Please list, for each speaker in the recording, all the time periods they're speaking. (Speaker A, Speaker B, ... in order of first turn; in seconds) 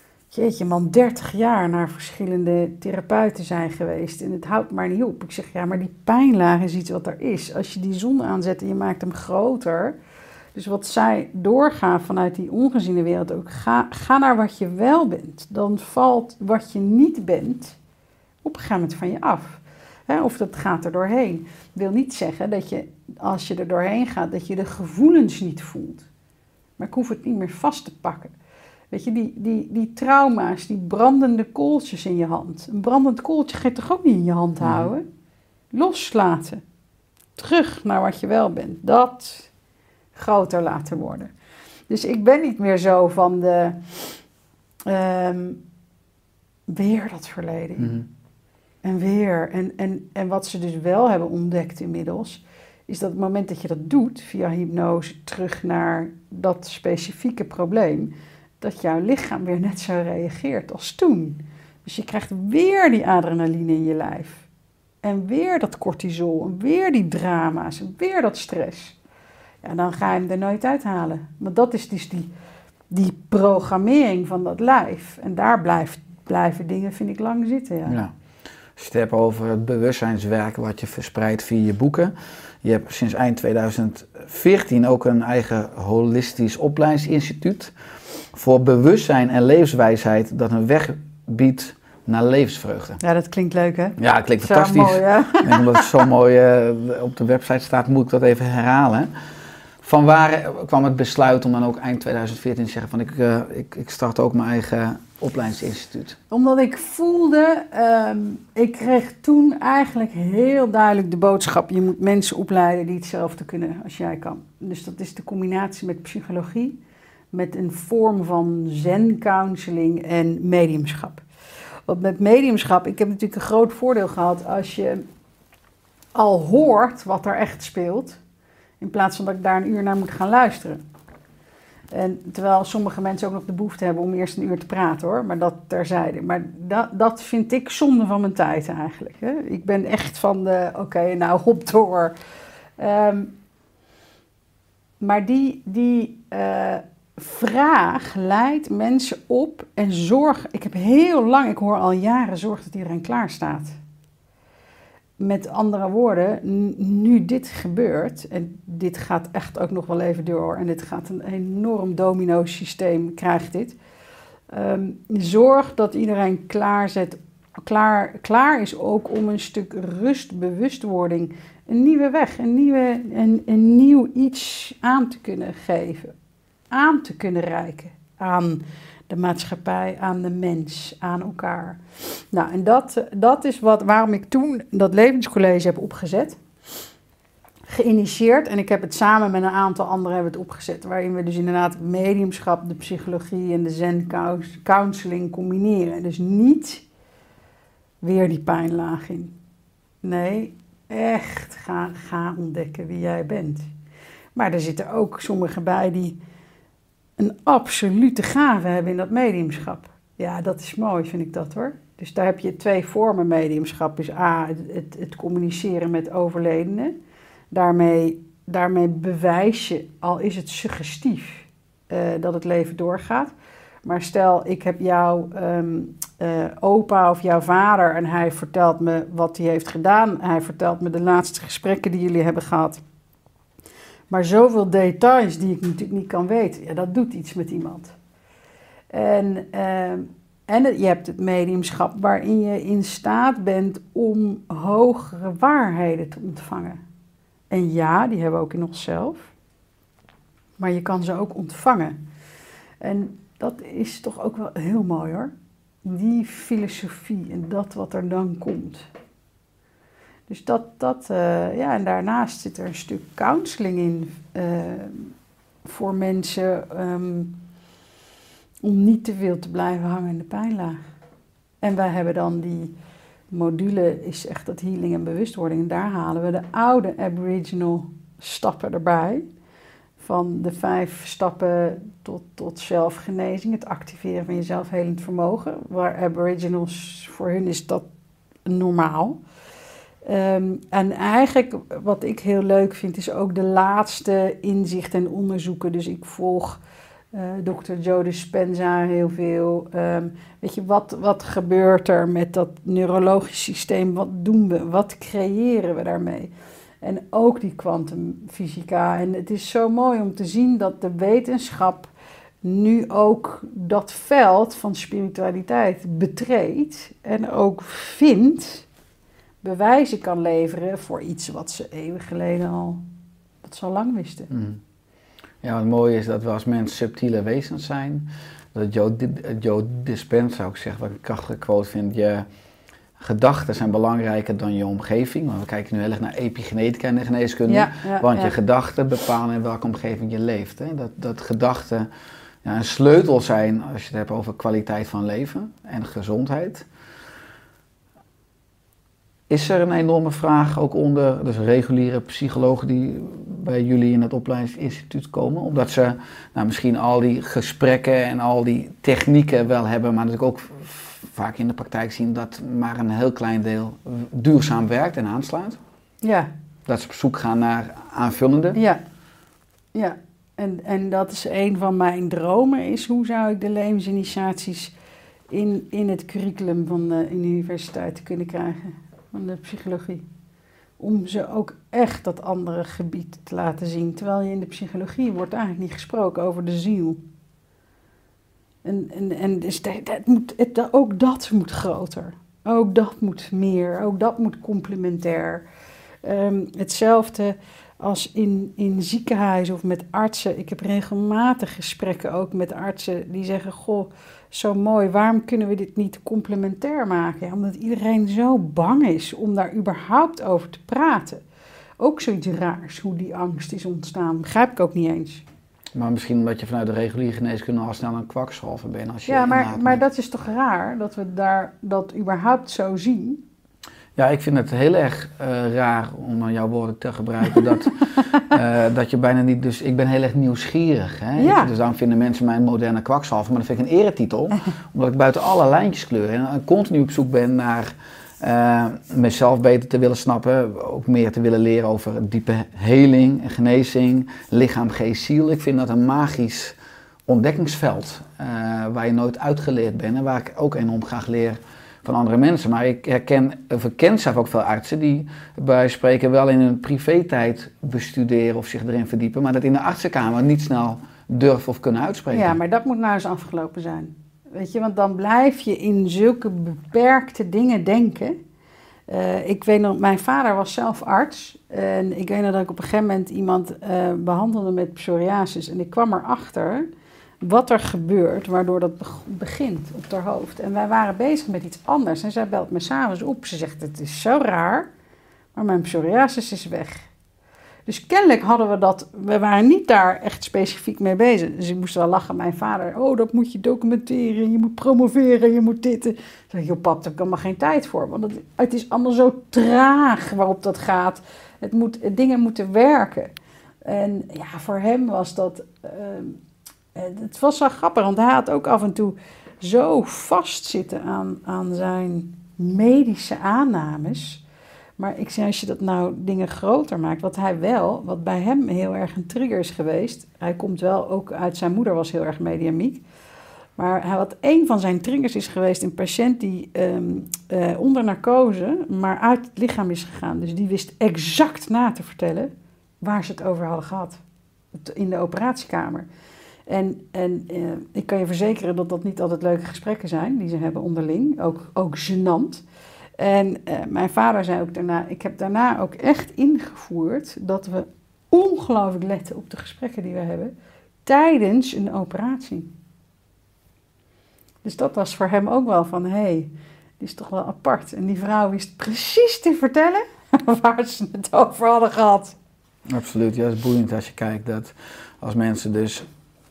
Speaker A: 0.3-9.9, 10.5-17.8, 18.4-26.1, 26.8-28.3, 28.9-35.0, 35.7-36.6, 37.4-39.5, 40.1-41.3, 41.9-44.2, 44.9-45.6, 46.7-48.0, 48.8-64.4, 65.0-69.0, 69.6-72.3, 72.9-78.0, 93.0-96.0, 106.3-116.8, 117.3-121.2, 121.9-125.0, 126.1-128.2, 128.8-130.8, 131.9-142.2, 142.8-143.3, 145.0-153.7, 155.2-163.8, 164.5-176.1, 176.7-181.8, 182.3-186.4, 187.7-196.8, 198.0-199.3, 200.0-203.7, 204.3-206.2, 207.2-216.9, 217.5-223.3, 223.8-232.8, 234.1-237.9, 238.9-246.8, 247.5-249.3, 250.6-252.0, 252.8-255.3, 255.8-258.9, 260.3-265.1, 265.6-267.4, 268.6-270.8, 271.6-272.7, 273.3-279.2, 280.0-287.9, 288.4-289.2, 290.0-296.6, 297.1-306.3, 306.8-311.9, 312.4-318.6, 319.4-322.8, 323.4-324.3, 337.5-338.4, 366.0-366.3, 368.5-368.8, 369.7-374.7, 375.3-380.1, 380.8-387.0, 388.6-395.4, 396.0-411.2, 411.8-415.2, 419.1-423.2, 431.2-431.5, 462.1-468.2, 468.9-476.7, 477.2-484.7, 485.3-486.9, 487.7-503.1, 503.6-506.2, 506.7-514.2, 514.8-522.8, 523.6-534.0, 534.5-535.9, 536.5-542.4, 543.0-550.3, 550.9-552.5, 554.4-562.1
Speaker B: 34.6-34.9, 77.8-78.1, 78.8-87.7, 88.3-93.0, 94.0-99.1, 99.8-106.2, 324.3-324.6, 325.4-332.3, 333.0-341.9, 342.4-346.6, 349.3-365.6, 366.6-368.6, 415.7-419.8, 423.9-446.6, 447.1-462.4, 562.7-565.9